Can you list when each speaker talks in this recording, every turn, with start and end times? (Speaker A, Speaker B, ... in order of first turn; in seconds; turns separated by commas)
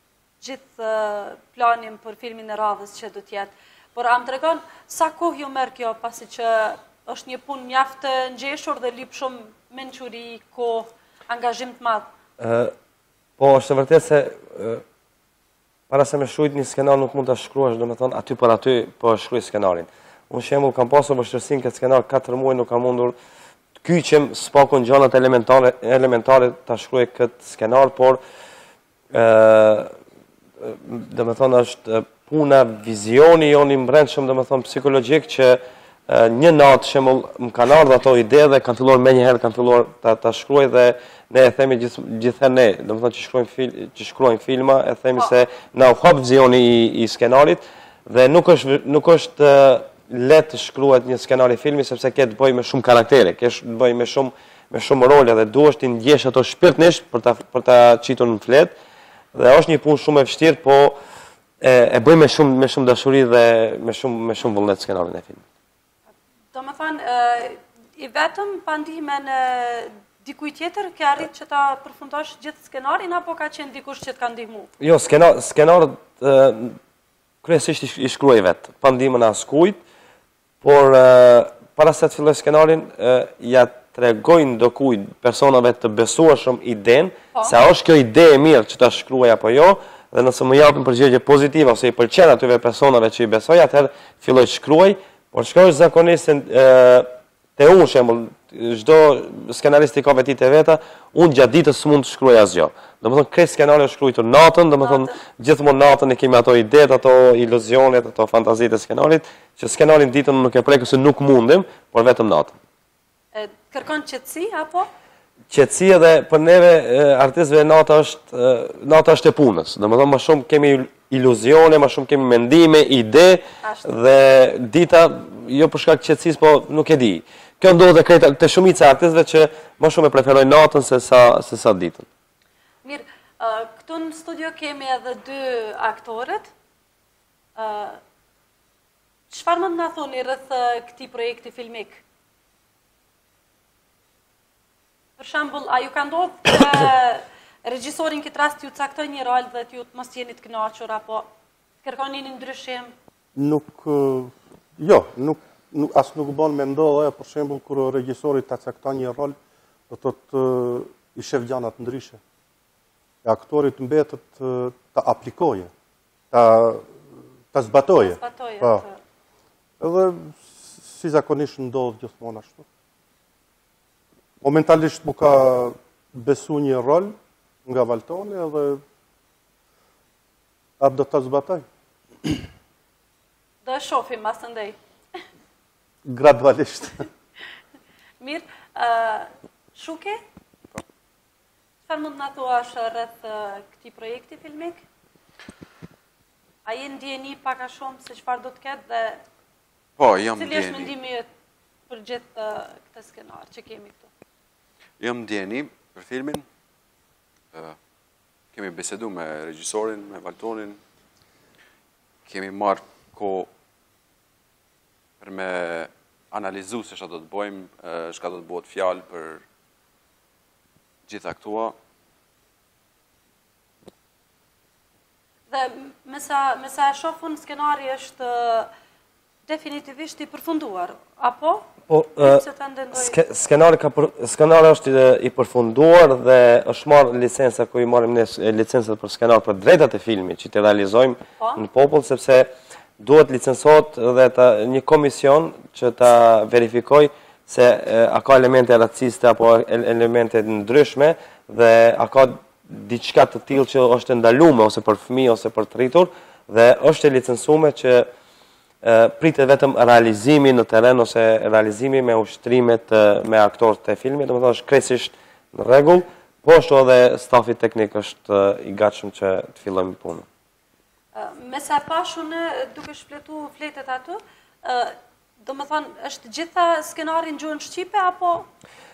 Speaker A: 0.4-12.1, Speaker B: 12.4-12.7, Speaker B: 13.4-14.8, Speaker B: 15.9-23.1, Speaker B: 23.8-28.2, Speaker B: 29.1-29.9, Speaker B: 30.6-58.7, Speaker B: 59.3-61.0, Speaker B: 61.6-65.4, Speaker A: 66.5-74.7, Speaker B: 74.8-76.8, Speaker B: 77.4-79.8, Speaker B: 80.6-112.5, Speaker A: 104.8-105.2, Speaker A: 113.3-114.9, Speaker B: 115.5-132.1, Speaker A: 123.6-123.9, Speaker A: 132.8-136.5, Speaker A: 137.6-138.0, Speaker A: 139.3-142.0, Speaker A: 145.2-151.3, Speaker A: 151.8-152.9, Speaker C: 153.3-159.3, Speaker C: 159.9-162.2, Speaker C: 163.2-165.7, Speaker C: 166.3-166.9, Speaker C: 167.5-168.8, Speaker A: 168.0-169.0, Speaker C: 169.8-172.7, Speaker C: 174.4-177.1, Speaker C: 177.7-178.8, Speaker C: 180.8-181.7, Speaker A: 183.6-184.8, Speaker C: 186.0-187.0, Speaker A: 188.2-190.2, Speaker A: 191.9-194.8, Speaker A: 196.6-199.2, Speaker D: 200.0-200.9, Speaker A: 200.3-201.2, Speaker A: 201.9-204.1, Speaker D: 205.0-206.4, Speaker D: 208.5-210.8, Speaker D: 212.2-213.5, Speaker D: 215.2-219.4, Speaker D: 221.1-221.7, Speaker A: 225.5-228.7, Speaker A: 229.5-233.2, Speaker B: 231.9-232.4, Speaker B: 232.9-258.1, Speaker B: 258.8-270.2, Speaker A: 271.1-278.5